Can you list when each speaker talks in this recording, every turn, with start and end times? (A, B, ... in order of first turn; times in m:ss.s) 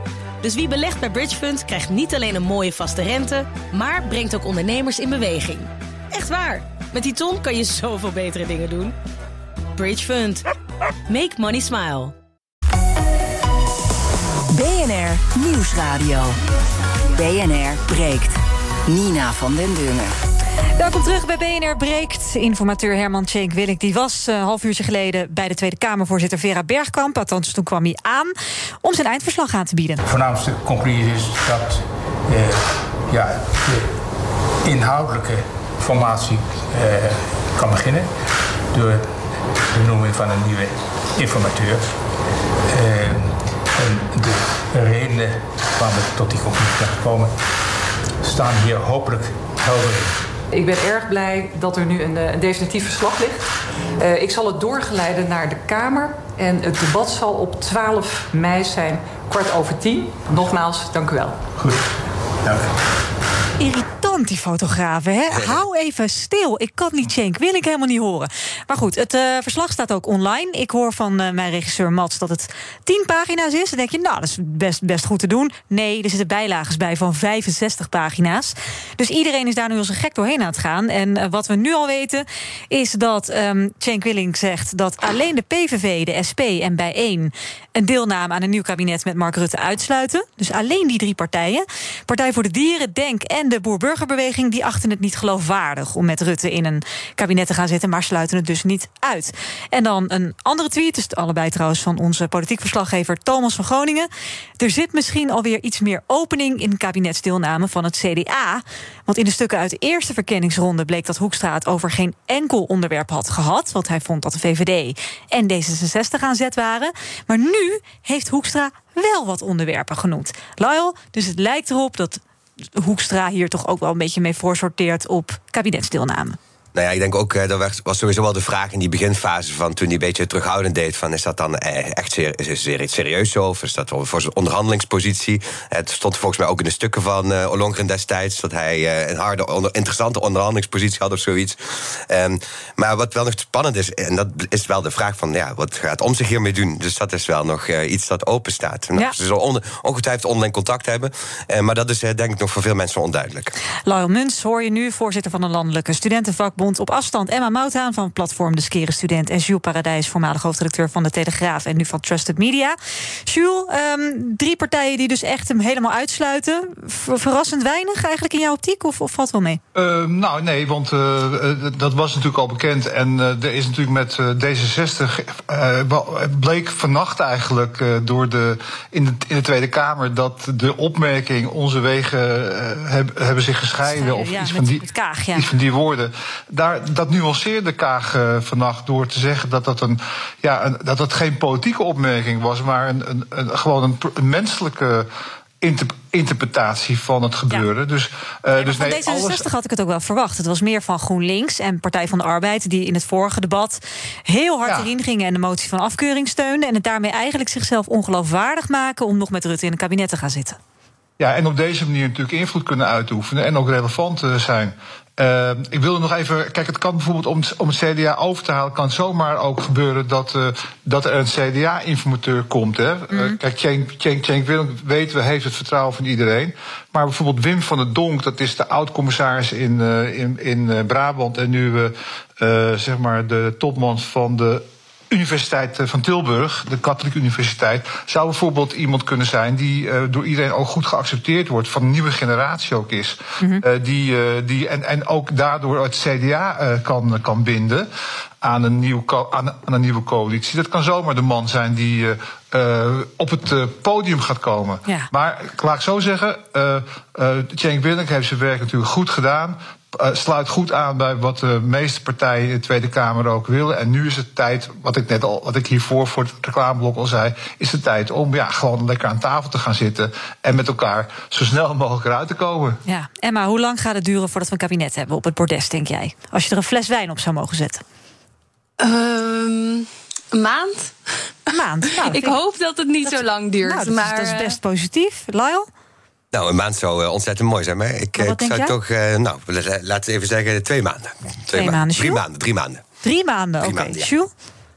0:00.4-0:08.9 A
0:09.8-0:10.4 A
0:11.1-0:12.1 A
0:14.5-0:16.4 B
0:17.1-0:20.1 B
0:20.8-0:28.3 C
0:28.8-0:30.0 C
0:30.0-0:34.0 D
0:34.6-0:38.1 D
0:38.7-0:42.0 D
0:42.7-0:47.4 D
0:48.2-0:50.2 D
0:50.5-1:01.4 E
1:01.6-1:01.9 D
1:02.4-1:02.7 D
1:03.6-2:02.2 C
2:02.8-2:06.4 C
2:06.7-2:33.5 F
2:33.8-2:49.6 C
2:49.7-3:15.1 G
3:03.8-3:05.4 C
3:15.6-3:19.4 G
3:18.6-3:30.6 C
3:31.2-4:07.9 G
3:43.1-3:43.4 C
4:08.4-4:32.8 G
4:32.8-4:37.8 C
4:38.8-4:40.9 H
4:41.5-4:42.4 C
4:42.0-4:44.6 H
4:43.0-4:45.7 C
4:46.3-4:52.8 F
4:48.2-4:48.8 C
4:51.5-4:52.2 C
4:53.0-4:54.3 C
4:53.6-4:54.1 F